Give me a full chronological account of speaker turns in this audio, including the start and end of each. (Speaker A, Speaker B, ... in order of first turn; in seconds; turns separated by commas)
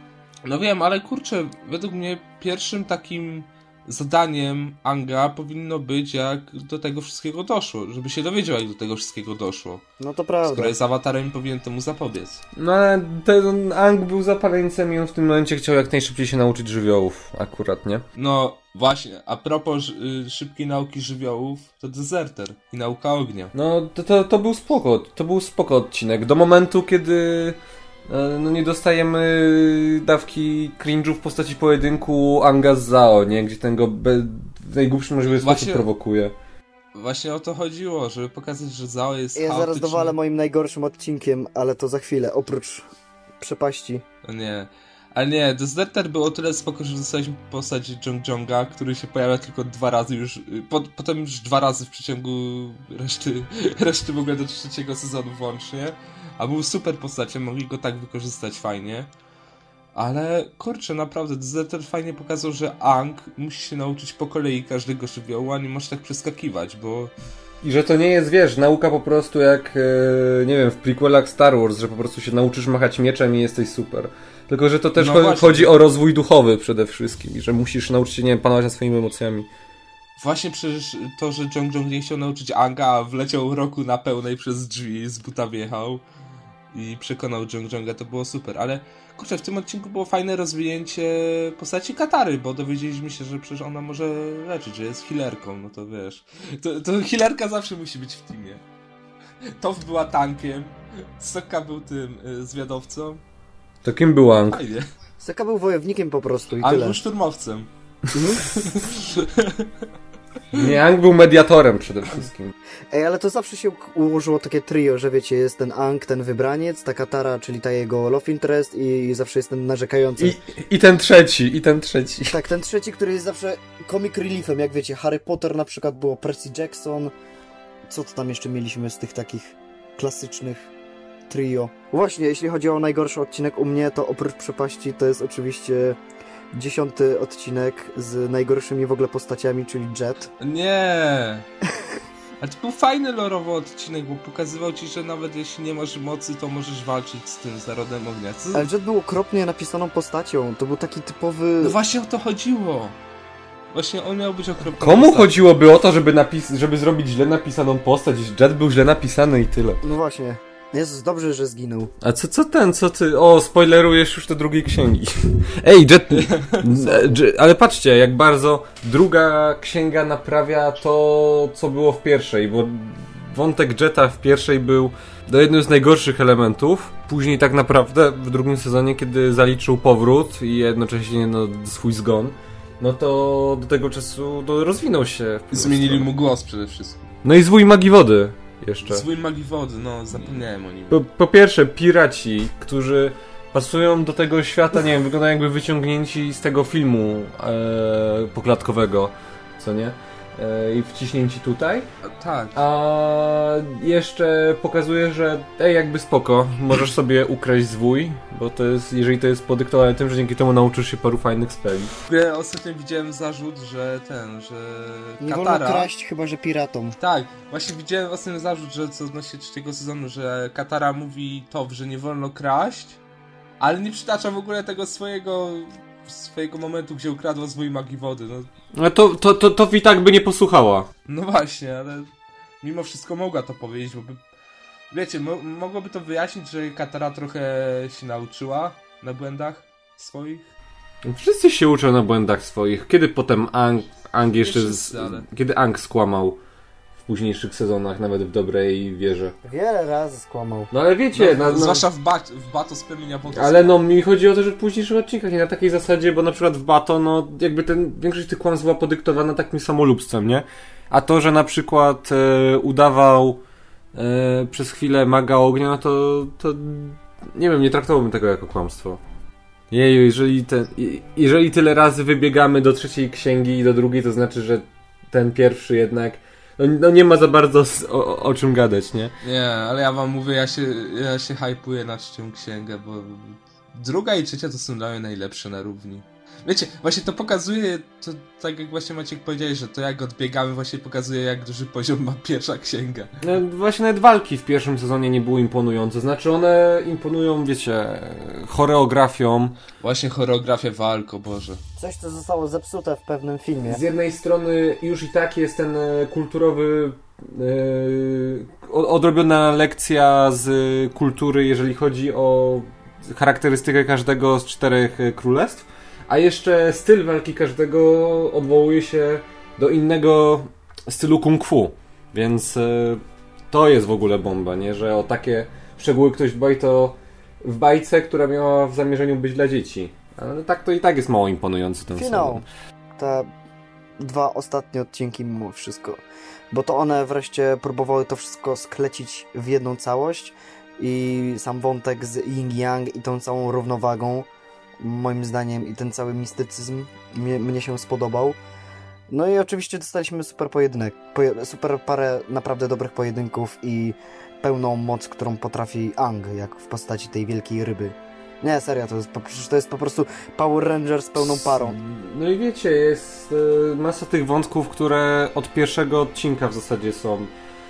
Speaker A: 0.4-9.8, Speaker B: 10.0-10.7, Speaker A: 10.4-12.4, Speaker C: 12.6-18.0, Speaker A: 18.1-23.5, Speaker C: 23.5-36.3, Speaker A: 35.3-35.9, Speaker A: 36.9-40.1, Speaker B: 39.4-42.9, Speaker B: 43.4-44.0, Speaker A: 44.2-59.1, Speaker A: 59.9-67.1, Speaker C: 67.6-79.5, Speaker A: 75.0-75.7, Speaker A: 80.2-86.0, Speaker A: 86.7-98.6, Speaker A: 99.6-103.2, Speaker C: 103.8-104.6, Speaker A: 104.5-104.9, Speaker B: 105.2-107.0, Speaker A: 106.6-107.7, Speaker C: 108.1-108.6, Speaker B: 108.1-108.4, Speaker A: 108.5-109.7, Speaker C: 110.5-112.5, Speaker B: 112.9-120.3, Speaker C: 120.2-122.3, Speaker B: 122.3-127.1, Speaker B: 127.9-130.7, Speaker B: 131.3-136.0, Speaker B: 136.5-140.3, Speaker A: 140.4-141.5, Speaker A: 142.4-148.7, Speaker B: 148.5-151.8, Speaker A: 151.6-153.0, Speaker A: 153.7-155.4, Speaker C: 154.7-159.8, Speaker B: 159.8-161.9, Speaker C: 162.0-186.1, Speaker A: 166.1-166.7, Speaker B: 166.9-167.2, Speaker A: 185.5-187.1, Speaker C: 187.2-189.1, Speaker A: 188.8-191.0, Speaker C: 190.9-201.9, Speaker A: 202.0-202.6, Speaker C: 202.5-211.9, Speaker A: 212.1-215.9, Speaker B: 215.2-217.0, Speaker A: 217.0-223.0, Speaker A: 223.6-228.5, Speaker C: 228.7-230.9, Speaker A: 231.1-234.2, Speaker A: 234.9-240.5, Speaker C: 241.0-246.4, Speaker A: 244.4-245.2, Speaker C: 247.0-249.3, Speaker B: 249.4-250.7, Speaker C: 250.7-251.9, Speaker A: 251.1-253.8, Speaker C: 253.3-263.4, Speaker C: 263.9-269.0, Speaker C: 269.7-279.1, Speaker A: 279.2-293.1, Speaker C: 293.2-299.6, Speaker A: 299.8-301.6, Speaker B: 301.8-303.8, Speaker C: 303.6-332.4, Speaker B: 331.9-332.4, Speaker B: 333.0-333.3, Speaker B: 334.0-336.0, Speaker B: 336.5-344.3, Speaker B: 344.8-348.4, Speaker B: 349.1-361.8, Speaker C: 361.2-367.3